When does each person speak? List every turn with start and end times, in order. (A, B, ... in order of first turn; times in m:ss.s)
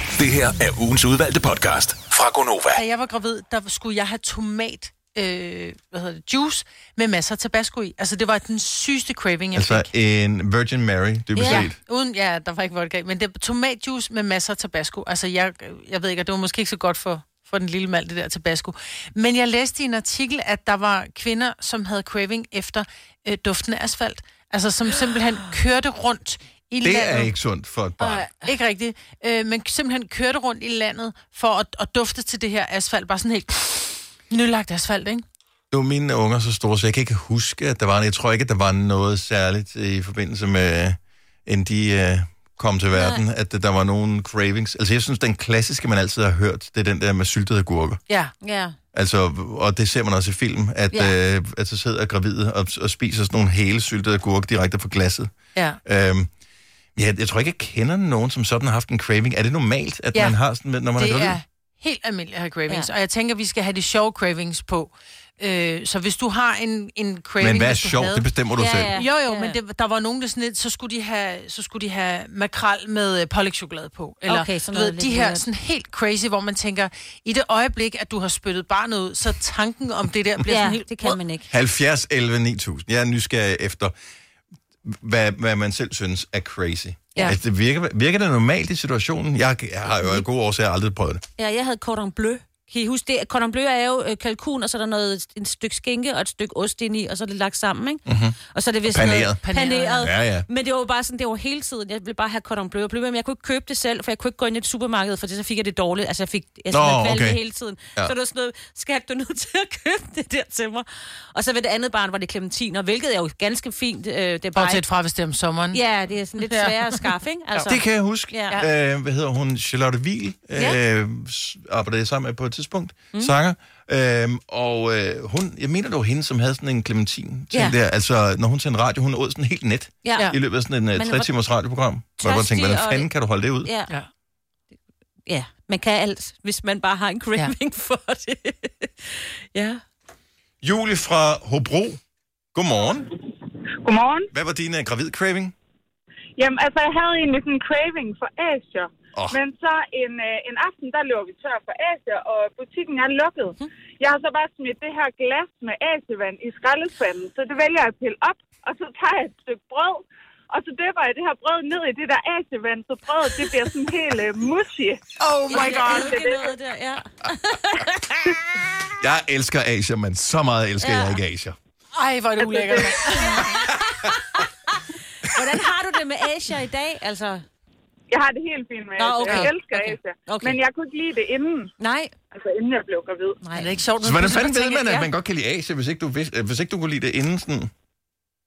0:00.2-0:02.8 A
0:02.7-0:09.9 B
0:09.5-0:11.8 C
0:11.4-0:11.7 D
0:11.4-0:27.3 B
0:26.8-0:28.2 C
0:28.0-0:35.2 B
0:35.7-0:48.0 C
0:42.9-0:43.2 D
0:48.4-0:48.8 D
0:48.9-0:55.3 C
0:55.6-0:55.8 B
0:55.8-0:56.3 C
0:57.0-1:01.4 C
1:01.0-1:08.3 B
1:07.4-1:09.0 C
1:08.6-1:09.6 D
1:09.0-1:21.1 B
1:14.3-1:15.4 D
1:20.5-1:21.5 D
1:21.5-1:23.9 C
1:24.8-1:31.2 C
1:31.4-1:54.8 D
1:38.1-1:39.4 C
1:39.4-1:40.1 B
1:40.0-1:40.5 C
1:46.7-1:47.4 C
1:54.6-1:55.8 B
1:55.7-1:57.8 D
1:56.5-1:57.7 B
1:57.7-2:13.7 C
1:58.3-1:58.6 D
2:10.0-2:10.3 D
2:10.9-2:11.3 D
2:12.2-2:13.1 D
2:13.6-2:13.9 D
2:15.3-2:19.8 D
2:20.6-2:22.0 C
2:22.6-2:23.1 C
2:23.8-2:24.3 E
2:24.3-2:25.5 C
2:26.4-2:46.5 E
2:45.2-2:46.2 B
2:45.5-2:48.1 D
2:49.0-2:51.6 C
2:50.8-2:51.2 D
2:52.0-2:53.5 B
2:52.4-2:53.2 E
2:53.4-2:54.4 D
2:55.2-2:57.4 D
2:58.1-3:01.7 E
2:59.0-3:00.6 D
2:59.3-2:59.5 B
3:01.8-3:02.1 D
3:02.3-3:03.4 E
3:03.4-3:03.7 D
3:03.6-3:05.1 B
3:04.0-3:07.7 C